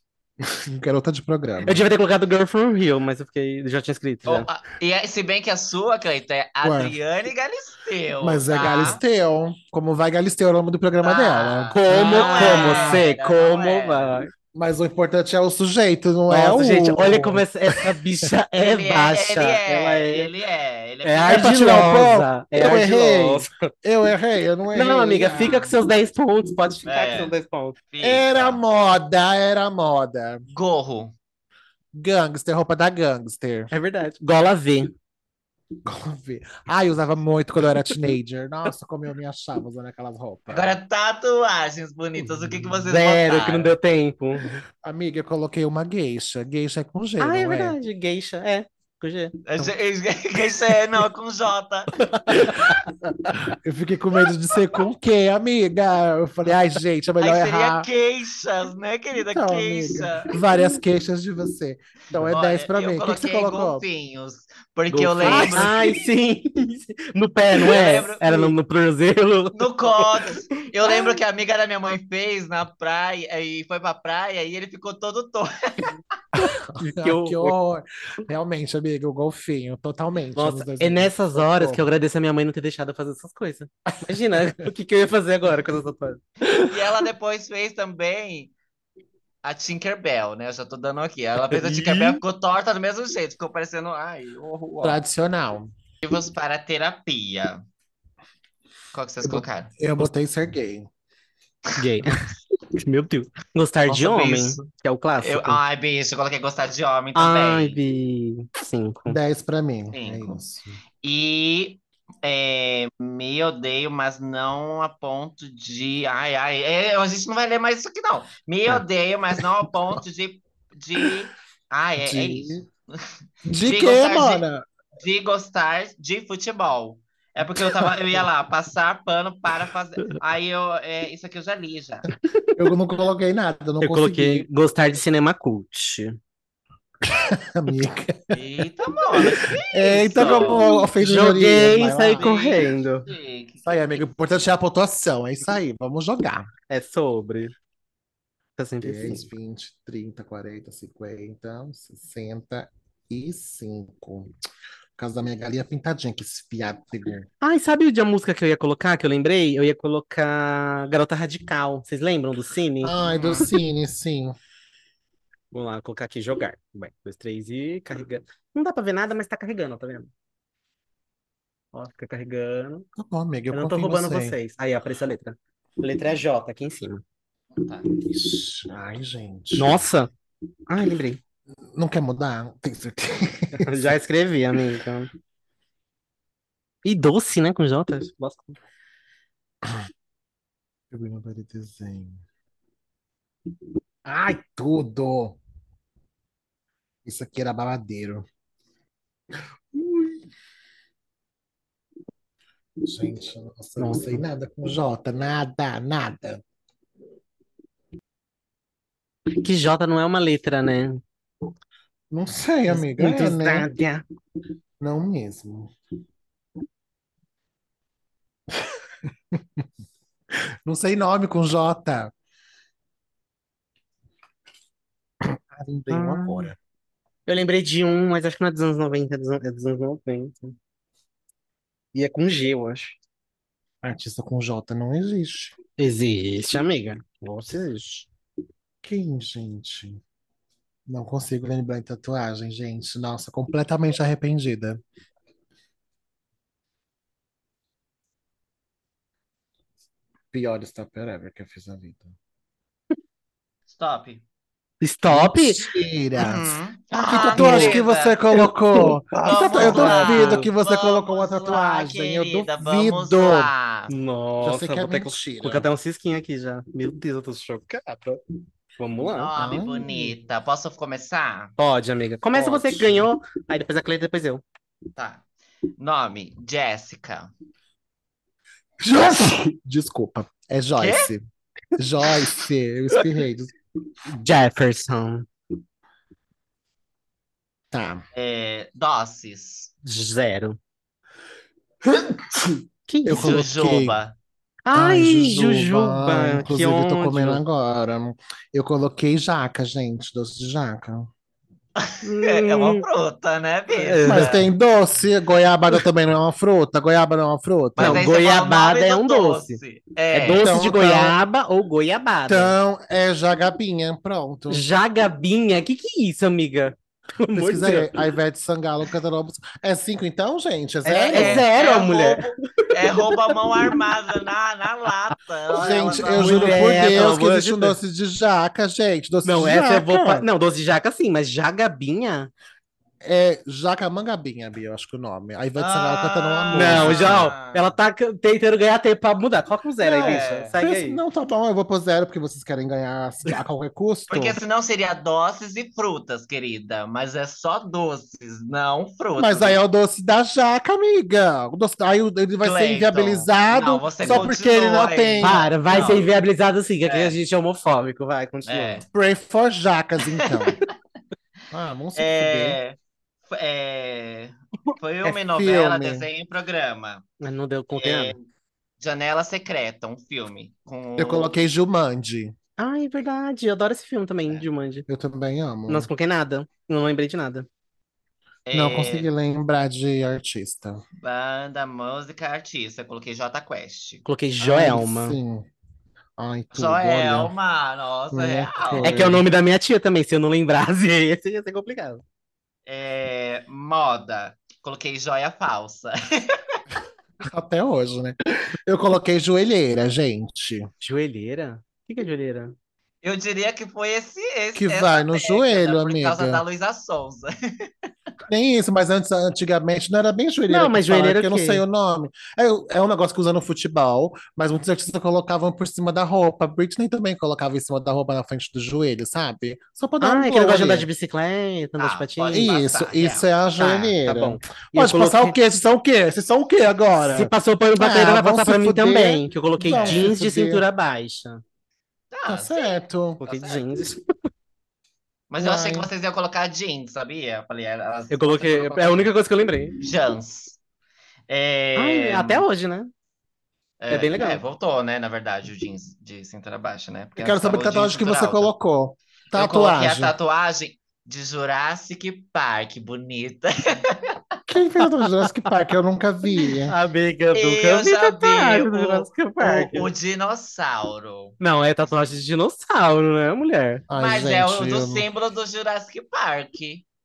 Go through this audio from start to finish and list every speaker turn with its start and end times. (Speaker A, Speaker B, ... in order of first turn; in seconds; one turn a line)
Speaker A: 0.4-1.9
Speaker B: 1.6-4.5
Speaker C: 4.3-9.0
Speaker A: 6.6-7.0
Speaker A: 8.2-13.0
Speaker C: 11.0-14.2
Speaker B: 11.7-14.3
Speaker A: 14.5-18.2
Speaker B: 16.3-20.3
Speaker C: 18.6-21.8
Speaker B: 21.0-23.5
Speaker A: 21.3-25.7
Speaker B: 24.7-27.8
Speaker C: 25.3-25.7
Speaker C: 26.9-27.4
Speaker C: 27.9-28.6
Speaker A: 28.0-30.4
Speaker C: 30.5-31.1
Speaker A: 31.9-33.7
Speaker B: 33.7-34.9
Speaker A: 35.8-40.8
Speaker C: 40.5-43.7
Speaker B: 42.9-44.6
Speaker A: 44.8-47.8
Speaker B: 47.2-49.3
Speaker C: 49.5-52.0
Speaker B: 52.0-53.4
Speaker A: 52.3-57.9
Speaker C: 57.2-60.4
Speaker A: 59.3-63.8
Speaker B: 60.5-60.8
Speaker C: 62.2-66.0
Speaker B: 64.9-70.3
Speaker A: 65.1-65.8
Speaker C: 67.5-68.6
Speaker C: 69.5-75.9
Speaker A: 76.3-81.8
Speaker B: 76.4-77.5
Speaker B: 80.3-86.2
Speaker A: 83.9-84.7
Speaker A: 86.4-87.0
Speaker C: 86.5-88.5
Speaker C: 89.4-95.0
Speaker B: 91.5-92.2
Speaker A: 94.8-95.7
Speaker C: 96.0-97.6
Speaker C: 98.9-99.7
Speaker A: 99.2-100.9
Speaker B: 101.8-105.6
Speaker C: 103.9-104.6
Speaker C: 105.2-107.8
Speaker B: 107.1-109.2
Speaker A: 109.0-110.7
Speaker C: 109.9-110.4
Speaker C: 111.0-123.1
Speaker A: 122.0-122.6
Speaker A: 123.4-124.7
Speaker C: 123.6-124.4
Speaker C: 125.0-132.1
Speaker B: 132.3-132.6
Speaker A: 132.6-134.5
Speaker B: 133.8-136.2
Speaker A: 137.0-138.4
Speaker C: 138.3-140.7
Speaker A: 139.2-142.4
Speaker B: 140.2-143.1
Speaker C: 142.1-144.1
Speaker A: 143.7-146.5
Speaker B: 146.7-147.5
Speaker B: 148.6-149.3
Speaker A: 148.8-154.3
Speaker A: 155.0-157.3
Speaker B: 157.4-162.9
Speaker A: 162.8-164.3
Speaker C: 163.0-163.5
Speaker B: 165.5-170.1
Speaker B: 171.7-172.8
Speaker A: 172.9-174.4
Speaker B: 173.5-177.0
Speaker C: 177.6-177.9
Speaker A: 178.0-179.8
Speaker B: 179.6-180.1
Speaker B: 180.7-181.2
Speaker A: 181.7-183.9
Speaker B: 183.5-185.1
Speaker B: 186.8-188.6
Speaker A: 190.9-192.2
Speaker A: 194.0-195.4
Speaker A: 197.0-198.2
Speaker A: 199.7-200.3
Speaker A: 202.8-206.4
Speaker B: 203.8-204.1
Speaker B: 209.4-211.0
Speaker A: 212.1-213.7
Speaker B: 212.7-214.0
Speaker A: 214.8-215.7
Speaker A: 219.3-219.6
Speaker A: 220.6-222.1
Speaker A: 225.2-226.6
Speaker B: 225.9-226.5
Speaker B: 227.2-230.6
Speaker B: 231.9-233.0
Speaker A: 233.8-235.5
Speaker B: 235.8-238.1
Speaker A: 238.8-240.0
Speaker A: 240.9-244.8
Speaker A: 250.3-252.1
Speaker C: 253.7-254.2
Speaker B: 254.8-255.8
Speaker A: 255.1-263.5
Speaker C: 256.2-258.2
Speaker B: 257.0-257.8
Speaker B: 258.3-260.5
Speaker C: 259.2-263.9
Speaker B: 263.9-268.2
Speaker A: 264.4-265.7
Speaker B: 268.8-269.3
Speaker C: 269.0-271.5
Speaker A: 269.4-270.1
Speaker B: 271.6-274.4
Speaker A: 272.3-273.1
Speaker C: 274.9-275.2
Speaker C: 275.8-277.3
Speaker A: 278.8-281.2
Speaker C: 280.8-281.1
Speaker A: 281.8-283.5
Speaker B: 284.1-285.3
Speaker A: 287.7-288.0
Speaker C: 288.1-289.7
Speaker B: 289.8-290.6
Speaker A: 291.8-294.0
Speaker B: 292.9-293.4
Speaker C: 293.1-294.2
Speaker B: 294.6-297.4
Speaker A: 294.7-301.1
Speaker C: 301.8-304.5
Speaker B: 302.0-302.8
Speaker B: 303.7-304.3
Speaker A: 304.0-308.0
Speaker B: 307.8-309.6
Speaker C: 307.8-310.4
Speaker B: 310.1-312.5
Speaker A: 310.2-311.2
Speaker A: 312.3-314.6
Speaker B: 314.5-318.1
Speaker A: 317.3-321.5
Speaker B: 320.8-323.7
Speaker C: 321.1-326.9
Speaker B: 325.5-327.8
Speaker A: 325.5-330.2
Speaker B: 329.2-332.3
Speaker A: 333.0-337.3
Speaker C: 335.6-337.8
Speaker B: 336.5-341.0
Speaker A: 339.8-344.4
Speaker C: 340.0-340.5
Speaker C: 344.1-349.6
Speaker A: 349.2-355.4
Speaker C: 352.4-356.1
Speaker B: 355.2-358.8
Speaker C: 356.8-357.1
Speaker C: 358.4-358.8
Speaker A: 358.9-360.6
Speaker C: 360.1-360.7
Speaker A: 361.5-362.6
Speaker C: 361.9-362.8
Speaker C: 363.3-367.0
Speaker A: 365.0-366.1
Speaker B: 367.2-368.1
Speaker C: 367.8-368.2
Speaker C: 368.8-371.4
Speaker A: 371.0-372.3
Speaker B: 372.6-374.9
Speaker A: 374.9-375.9
Speaker B: 375.7-377.5
Speaker C: 378.5-379.1
Speaker A: 378.5-380.8
Speaker C: 381.0-384.0
Speaker B: 384.0-385.2
Speaker A: 384.4-385.4
Speaker A: 386.2-387.3
Speaker C: 386.5-389.1
Speaker A: 388.1-389.2
Speaker B: 388.8-392.0
Speaker C: 392.6-396.6
Speaker A: 397.2-400.7
Speaker B: 400.8-402.6
Speaker C: 403.0-407.7
Speaker A: 404.5-406.4
Speaker A: 408.3-420.9
Speaker B: 410.5-411.6
Speaker B: 420.0-422.5
Speaker C: 421.8-423.3
Speaker A: 422.3-430.6
Speaker B: 423.6-425.4
Speaker B: 427.1-431.4
Speaker C: 429.7-430.1
Speaker C: 432.1-433.8
Speaker A: 432.2-433.2
Speaker B: 433.2-434.0
Speaker C: 435.3-439.1
Speaker A: 435.4-435.9
Speaker B: 438.1-439.8
Speaker C: 439.8-440.6
Speaker C: 441.3-442.4
Speaker B: 441.8-442.9
Speaker C: 443.8-448.5
Speaker B: 443.9-444.4
Speaker A: 447.2-450.1
Speaker C: 449.3-454.2
Speaker A: 454.5-456.7
Speaker B: 455.0-455.5
Speaker B: 456.7-459.9
Speaker C: 457.3-461.4
Speaker B: 461.4-463.8
Speaker A: 463.9-465.1
Speaker C: 464.0-466.8